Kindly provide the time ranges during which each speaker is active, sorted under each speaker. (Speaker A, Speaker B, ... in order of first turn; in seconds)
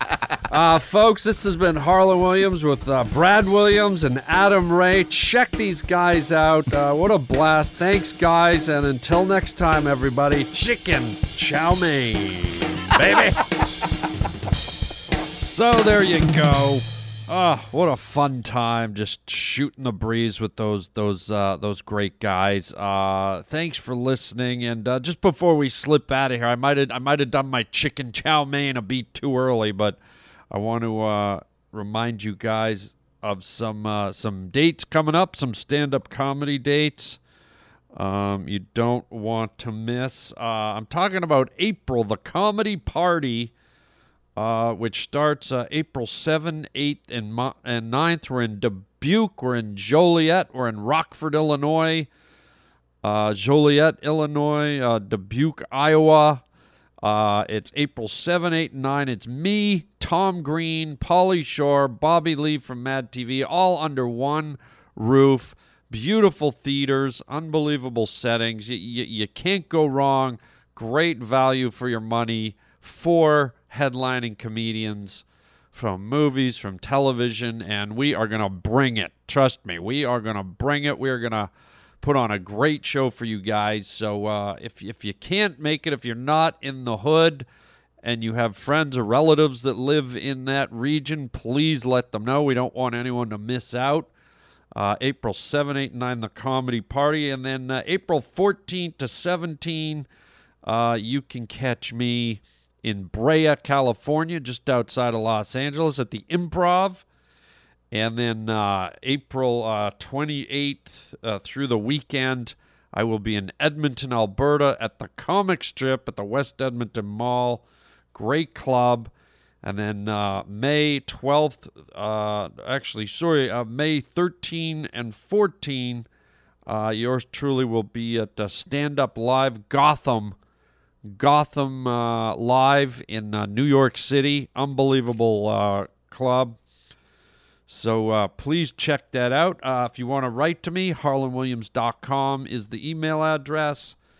Speaker A: 0.5-13.4, 15.1-30.0, 30.5-37.2, 37.9-43.5, 44.4-52.1, 53.0-56.4, 57.0-81.5, 82.0-87.5, 88.0-94.1, 94.7-100.1, 100.6-107.0, 107.9-119.1, 119.6-126.0, 126.7-130.3, 131.0-136.6, 137.7-143.9